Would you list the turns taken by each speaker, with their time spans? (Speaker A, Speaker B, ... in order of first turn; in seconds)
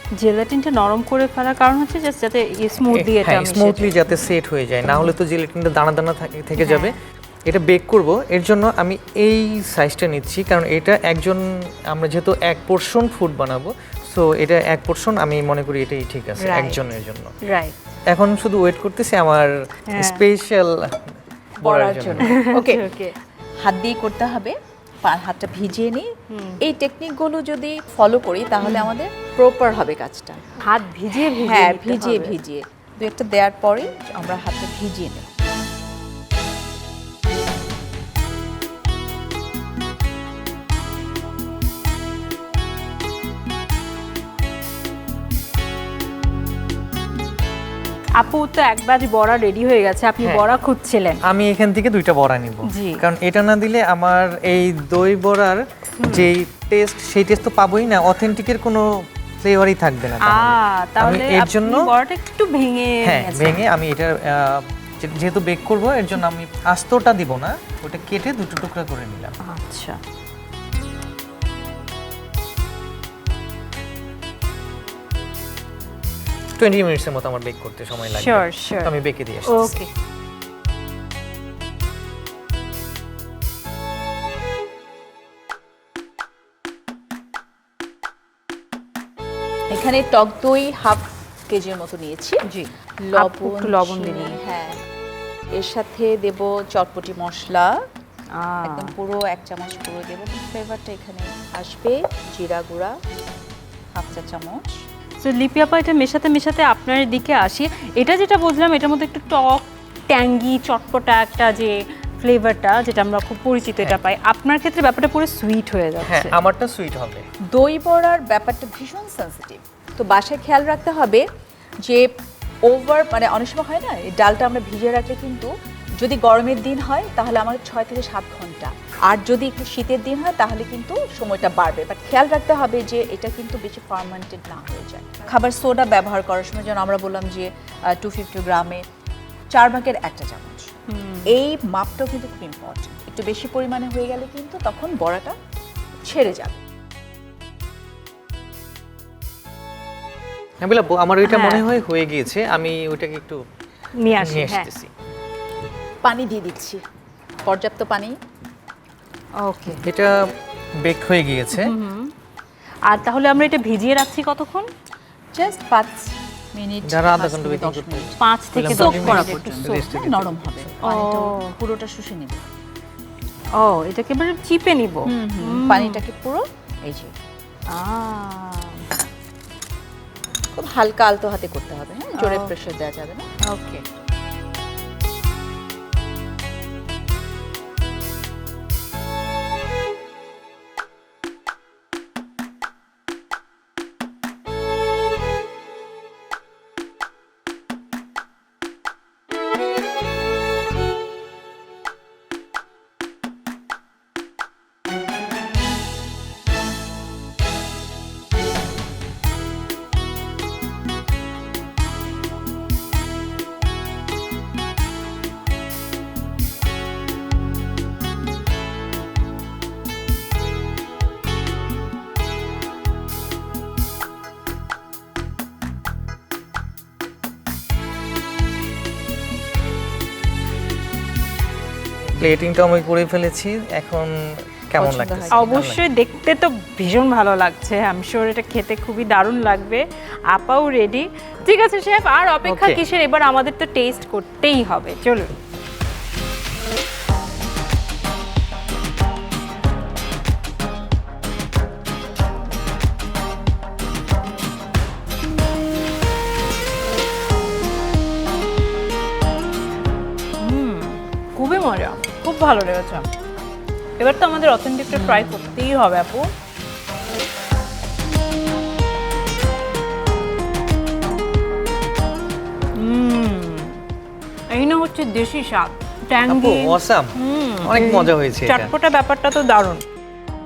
Speaker A: 0.2-4.1, 4.9-5.1, 6.6-7.0, 16.4-16.8, 17.4-17.8, 19.9-20.2, 22.2-23.1, 26.3-26.6, 28.6-28.9, 30.6-32.3, 48.2-51.2, 52.6-53.0, 56.0-56.3, 60.2-63.6, 69.4-70.0, 78.1-78.9, 79.4-79.9, 92.5-94.3, 98.3-98.9, 105.2-116.3, 140.9-141.3, 151.2-151.7, 153.9-154.7, 159.4-159.8, 161.5-162.1, 162.9-164.7, 168.2-169.6, 170.8-171.6, 173.6-176.0, 177.7-178.8, 182.2-182.5, 183.4-183.8, 235.3-245.3, 260.4-263.1, 264.0-266.3, 272.8-273.8, 274.5-279.8
Speaker B: 2.9-17.3, 18.1-22.4, 50.2-50.5, 51.2-61.9, 63.0-69.4, 76.6-79.8, 116.0-117.2, 150.6-153.4, 154.1-154.9, 159.8-161.7, 166.8-170.7, 232.1-234.1, 234.7-235.8, 242.4-242.8, 276.2-277.1, 277.6-278.7
Speaker C: 21.6-22.8, 23.6-26.1, 26.6-30.4, 31.1-35.3, 89.7-92.4, 93.0-94.8, 95.5-97.8, 98.7-103.0, 104.0-104.8, 117.5-121.2, 121.8-122.1, 122.7-138.8, 139.5-140.7, 141.2-145.3, 146.0-146.6, 156.0-156.8, 157.4-158.2, 165.3-172.4, 175.1-177.1, 180.5-183.3, 234.8-235.5